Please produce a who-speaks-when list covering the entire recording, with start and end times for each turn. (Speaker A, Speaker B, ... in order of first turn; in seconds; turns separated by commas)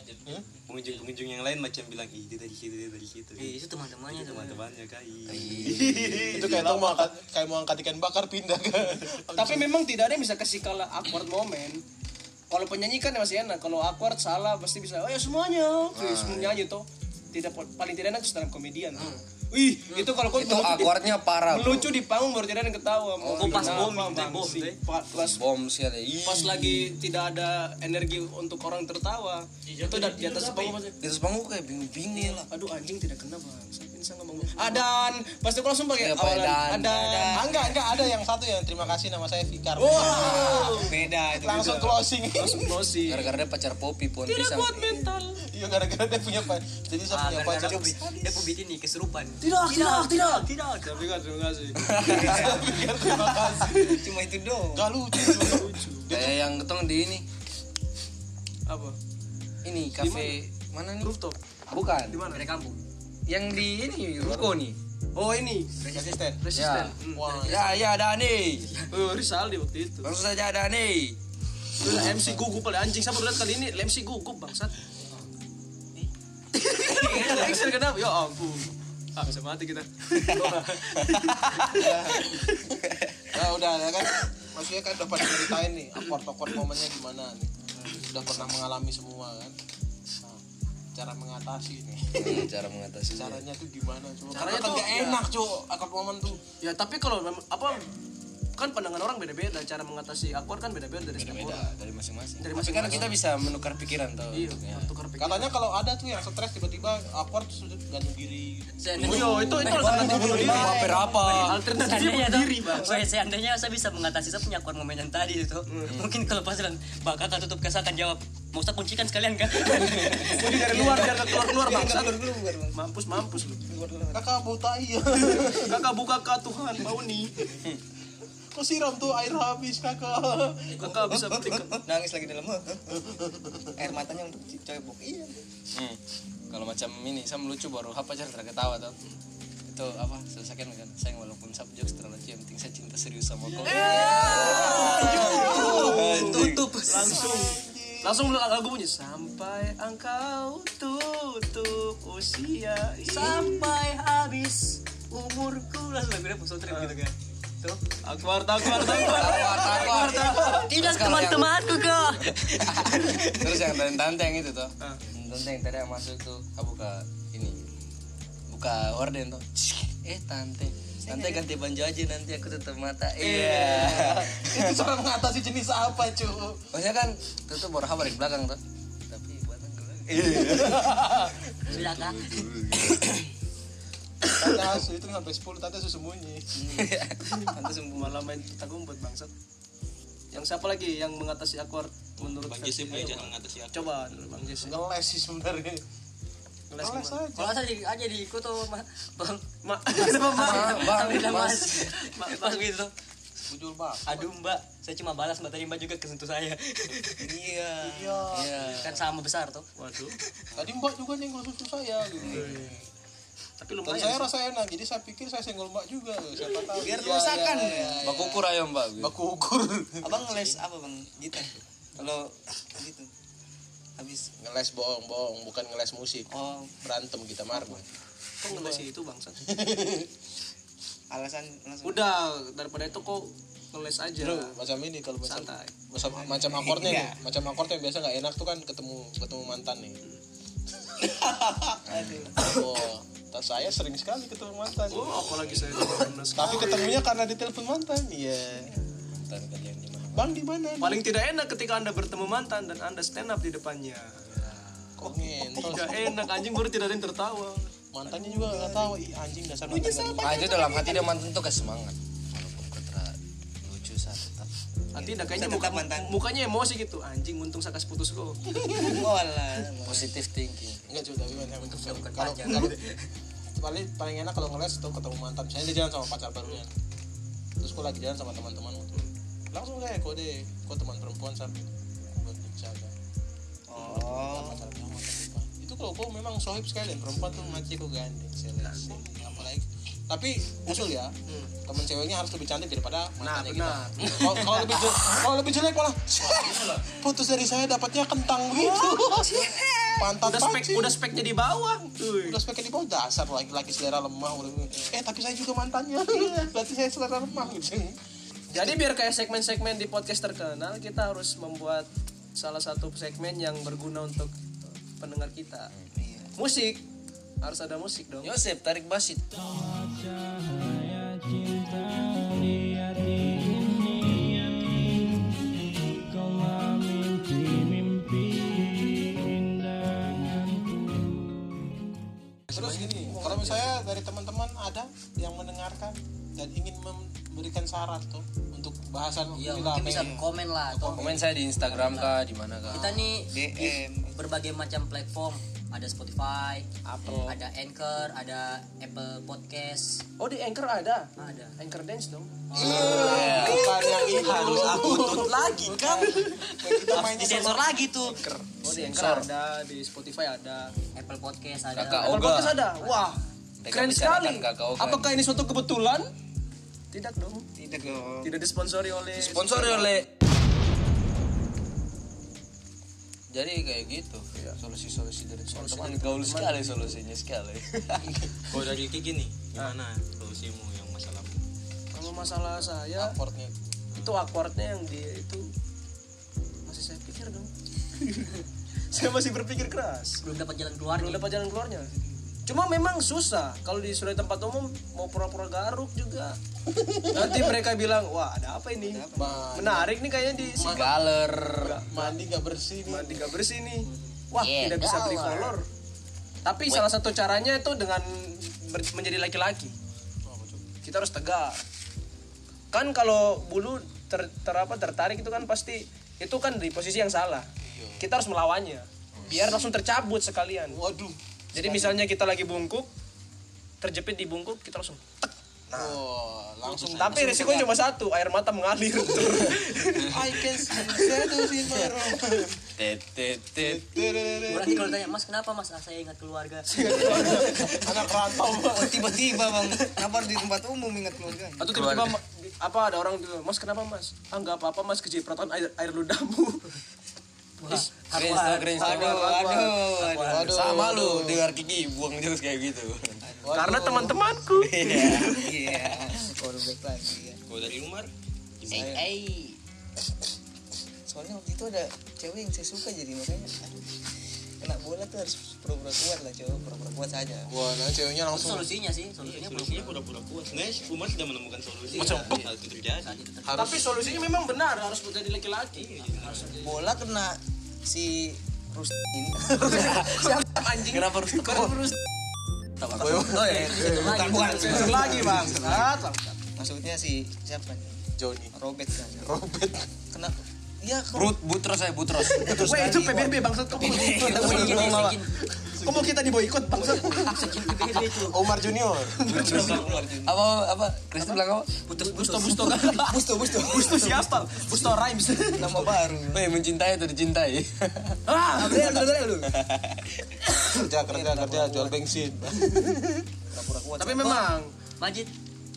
Speaker A: 0.7-3.5, Speaker B: 3.4-4.6, Speaker A: 4.1-6.9, Speaker C: 5.3-6.4, Speaker D: 6.2-9.7, Speaker E: 6.5-7.0, Speaker E: 9.3-11.8, Speaker E: 12.5-25.4, Speaker C: 15.9-16.6, Speaker C: 19.9-21.9, Speaker C: 23.2-24.0, Speaker B: 23.3-24.8, Speaker C: 25.1-26.9, Speaker E: 26.2-30.9, Speaker B: 30.2-30.7, Speaker C: 30.9-32.4, Speaker F: 32.1-32.5, Speaker E: 32.5-37.5, Speaker C: 36.0-37.0, Speaker F: 36.9-37.7, Speaker D: 37.3-42.9, Speaker E: 39.8-43.3, Speaker F: 40.1-41.9, Speaker C: 43.0-44.8, Speaker E: 44.2-45.4, Speaker D: 45.4-47.9, Speaker B: 47.1-51.0, Speaker F: 47.6-48.5, Speaker E: 49.4-52.6, Speaker C: 51.8-52.6, Speaker D: 52.0-54.0, Speaker F: 53.8-54.9, Speaker D: 54.7-56.4, Speaker E: 55.3-56.1, Speaker C: 56.1-57.2, Speaker E: 58.7-59.0, Speaker C: 59.6-61.1, Speaker E: 60.0-60.4, Speaker E: 61.0-61.4, Speaker C: 61.7-62.2, Speaker E: 62.1-62.5, Speaker B: 62.2-62.8, Speaker C: 63.3-64.8, Speaker D: 64.2-64.5, Speaker E: 65.1-67.4, Speaker B: 65.8-66.1, Speaker D: 65.9-66.4, Speaker C: 66.5-68.7, Speaker D: 67.1-67.9, Speaker E: 68.9-70.1, Speaker C: 70.0-71.2, Speaker E: 71.8-74.7, Speaker C: 71.8-72.4, Speaker E: 76.7-82.4, Speaker B: 77.1-77.5, Speaker B: 80.3-80.6, Speaker D: 81.7-82.8, Speaker D: 83.3-89.5, Speaker D: 90.9-92.5, Speaker C: 92.2-93.4, Speaker D: 93.1-96.4, Speaker E: 94.3-95.2, Speaker E: 96.6-97.9, Speaker E: 98.6-101.7, Speaker C: 101.1-104.9, Speaker E: 102.4-103.1, Speaker E: 104.3-105.5, Speaker D: 105.2-111.0, Speaker B: 108.8-121.1, Speaker E: 108.9-113.1, Speaker F: 110.2-111.2, Speaker C: 110.4-111.6, Speaker E: 115.7-116.0, Speaker F: 120.0-122.8, Speaker E: 120.2-123.6, Speaker F: 123.7-124.3, Speaker D: 124.1-125.8, Speaker E: 125.5-127.5, Speaker D: 128.5-131.0, Speaker E: 130.7-131.8, Speaker F: 131.0-133.0, Speaker D: 133.1-133.7, Speaker F: 133.8-135.3, Speaker C: 135.7-136.0, Speaker C: 136.5-138.9, Speaker C: 139.7-146.8, Speaker E: 143.6-153.7, Speaker D: 143.8-148.2, Speaker B: 144.0-144.6, Speaker F: 145.3-145.7, Speaker B: 145.7-147.2, Speaker F: 147.1-147.4, Speaker B: 153.0-157.8, Speaker E: 156.7-157.0, Speaker E: 158.0-160.7, Speaker B: 158.6-163.3, Speaker C: 159.0-161.7, Speaker C: 162.4-167.6, Speaker C: 168.5-174.8, Speaker F: 171.0-171.4, Speaker E: 173.2-174.2, Speaker D: 173.3-176.6, Speaker C: 176.7-183.2, Speaker D: 180.1-181.3, Speaker B: 181.7-182.5, Speaker D: 184.2-186.5, Speaker F: 186.5-188.2, Speaker C: 186.7-187.2, Speaker E: 187.4-189.3, Speaker E: 190.3-194.8, Speaker A: 192.2-194.4, Speaker D: 194.5-195.8, Speaker E: 196.7-197.2, Speaker D: 196.8-197.6, Speaker B: 197.3-202.9, Speaker E: 199.6-201.3, Speaker C: 200.3-201.9, Speaker E: 201.9-202.7, Speaker D: 203.4-204.2, Speaker B: 204.1-207.3, Speaker F: 207.2-208.3, Speaker D: 207.8-208.9, Speaker C: 208.3-209.0, Speaker B: 208.8-209.7, Speaker E: 209.8-210.1, Speaker D: 210.5-212.8, Speaker C: 212.2-212.5, Speaker E: 212.2-212.7, Speaker E: 213.6-214.3, Speaker D: 213.8-218.4, Speaker F: 216.7-218.2, Speaker C: 218.0-219.1, Speaker D: 219.0-220.2, Speaker F: 220.0-223.1, Speaker F: 224.0-224.3, Speaker D: 224.4-227.8, Speaker F: 226.3-226.7, Speaker F: 227.5-227.8, Speaker E: 228.4-229.4, Speaker D: 228.4-228.8, Speaker D: 229.5-230.1, Speaker F: 231.1-232.1, Speaker E: 231.8-234.5, Speaker D: 234.2-240.0, Speaker E: 235.2-235.7, Speaker F: 236.1-237.2, Speaker F: 241.0-242.8, Speaker C: 241.8-242.3, Speaker D: 242.4-245.3, Speaker E: 244.9-246.9, Speaker D: 246.0-248.8, Speaker C: 249.1-250.3, Speaker D: 250.1-251.0, Speaker E: 250.8-254.2, Speaker D: 255.0-256.4, Speaker E: 255.5-257.7, Speaker D: 257.9-260.6, Speaker F: 258.1-258.9, Speaker F: 259.7-261.0, Speaker C: 260.2-264.5, Speaker E: 264.9-268.4, Speaker F: 265.0-266.2, Speaker F: 268.7-270.1, Speaker C: 269.8-270.9, Speaker D: 270.9-272.8, Speaker B: 271.6-273.1, Speaker D: 273.5-276.7, Speaker D: 277.6-279.0, Speaker D: 279.5-282.9, Speaker F: 283.7-284.7, Speaker D: 283.7-299.4, Speaker E: 288.6-289.0, Speaker E: 293.2-294.7, Speaker F: 298.5-300.1, Speaker D: 300.0-300.9, Speaker E: 300.2-302.4, Speaker D: 302.2-307.9, Speaker D: 308.5-308.8, Speaker E: 308.5-314.3, Speaker E: 315.0-315.7, Speaker F: 315.9-316.3, Speaker E: 316.4-316.8, Speaker E: 317.4-318.4, Speaker C: 318.2-320.1, Speaker D: 332.5-341.5, Speaker B: 332.5-333.5, Speaker B: 339.3-350.0, Speaker F: 339.9-340.3, Speaker C: 340.9-343.2, Speaker F: 343.2-344.2, Speaker E: 346.9-347.4, Speaker E: 350.2-356.5, Speaker B: 351.2-351.6, Speaker B: 352.5-354.0, Speaker D: 352.5-357.8, Speaker C: 352.9-353.7, Speaker A: 354.1-355.4, Speaker B: 356.0-358.2, Speaker E: 358.0-360.7, Speaker C: 358.6-359.3, Speaker B: 360.9-363.1, Speaker C: 361.7-362.6, Speaker E: 361.9-363.2, Speaker C: 363.6-365.0, Speaker E: 363.7-366.1, Speaker E: 366.9-367.4, Speaker F: 367.6-368.3, Speaker E: 368.2-369.9, Speaker C: 369.1-370.1, Speaker C: 373.3-378.1, Speaker E: 375.5-376.9, Speaker A: 378.5-381.4, Speaker D: 381.9-383.8, Speaker E: 381.9-383.1, Speaker E: 383.9-385.4, Speaker E: 386.6-390.2, Speaker B: 390.2-391.3, Speaker E: 390.9-391.9, Speaker E: 392.4-396.3, Speaker D: 396.7-397.5, Speaker E: 397.1-400.9, Speaker F: 398.8-399.6, Speaker D: 399.1-399.9, Speaker D: 400.6-400.9, Speaker C: 400.6-401.8, Speaker E: 401.5-402.1, Speaker D: 401.8-403.3, Speaker E: 402.9-405.6, Speaker C: 404.4-405.5, Speaker E: 406.4-409.7, Speaker D: 410.2-410.6, Speaker E: 410.8-411.6, Speaker E: 412.7-417.5, Speaker D: 417.6-418.0, Speaker E: 418.0-420.8, Speaker D: 420.7-422.0, Speaker E: 421.5-422.9, Speaker E: 423.8-426.0, Speaker D: 425.7-427.6, Speaker E: 426.9-431.0, Speaker D: 430.0-432.6, Speaker C: 432.8-433.9, Speaker D: 433.6-435.1, Speaker B: 434.4-437.4, Speaker E: 436.6-437.8, Speaker D: 437.0-439.8, Speaker F: 438.6-441.7, Speaker E: 441.6-446.7, Speaker C: 441.7-442.2, Speaker B: 447.6-450.5, Speaker E: 447.6-447.9, Speaker C: 448.1-453.2, Speaker E: 448.7-449.8, Speaker D: 450.2-451.4, Speaker F: 453.2-453.7, Speaker D: 453.4-454.1, Speaker E: 453.5-455.2, Speaker C: 454.6-455.6, Speaker F: 454.9-457.4, Speaker A: 457.5-459.0, Speaker F: 458.7-459.1, Speaker B: 458.7-459.6, Speaker F: 461.1-464.0, Speaker F: 464.6-467.5, Speaker D: 467.5-468.7, Speaker B: 468.3-470.0, Speaker A: 469.2-473.3, Speaker D: 471.9-472.5, Speaker B: 471.9-472.3, Speaker B: 473.0-474.2, Speaker D: 473.4-474.3, Speaker E: 473.5-476.9, Speaker A: 475.7-476.5, Speaker F: 476.6-480.4, Speaker E: 479.6-482.0, Speaker C: 479.6-480.2, Speaker C: 480.9-481.7, Speaker C: 482.8-483.9, Speaker D: 482.9-484.2, Speaker B: 482.9-485.1, Speaker F: 483.7-485.9, Speaker E: 484.4-486.4, Speaker D: 484.8-485.8, Speaker F: 486.6-488.0, Speaker D: 488.2-488.5, Speaker F: 488.5-489.3, Speaker D: 489.2-489.9, Speaker F: 490.1-491.3, Speaker C: 491.1-494.9, Speaker E: 492.5-497.3, Speaker F: 493.8-494.5, Speaker D: 493.9-495.0, Speaker B: 494.1-495.4, Speaker D: 495.7-496.1, Speaker F: 496.8-497.6, Speaker B: 497.1-498.5, Speaker D: 497.2-499.7, Speaker E: 499.2-500.1, Speaker C: 499.3-501.9, Speaker F: 499.5-500.3, Speaker E: 501.9-506.0, Speaker B: 502.1-502.7, Speaker F: 502.2-504.9, Speaker F: 505.5-506.4, Speaker C: 506.3-508.2, Speaker E: 508.3-509.3, Speaker F: 508.6-509.6, Speaker D: 510.5-513.3, Speaker F: 511.0-512.0, Speaker F: 513.5-514.4, Speaker E: 514.0-514.7, Speaker B: 515.0-515.3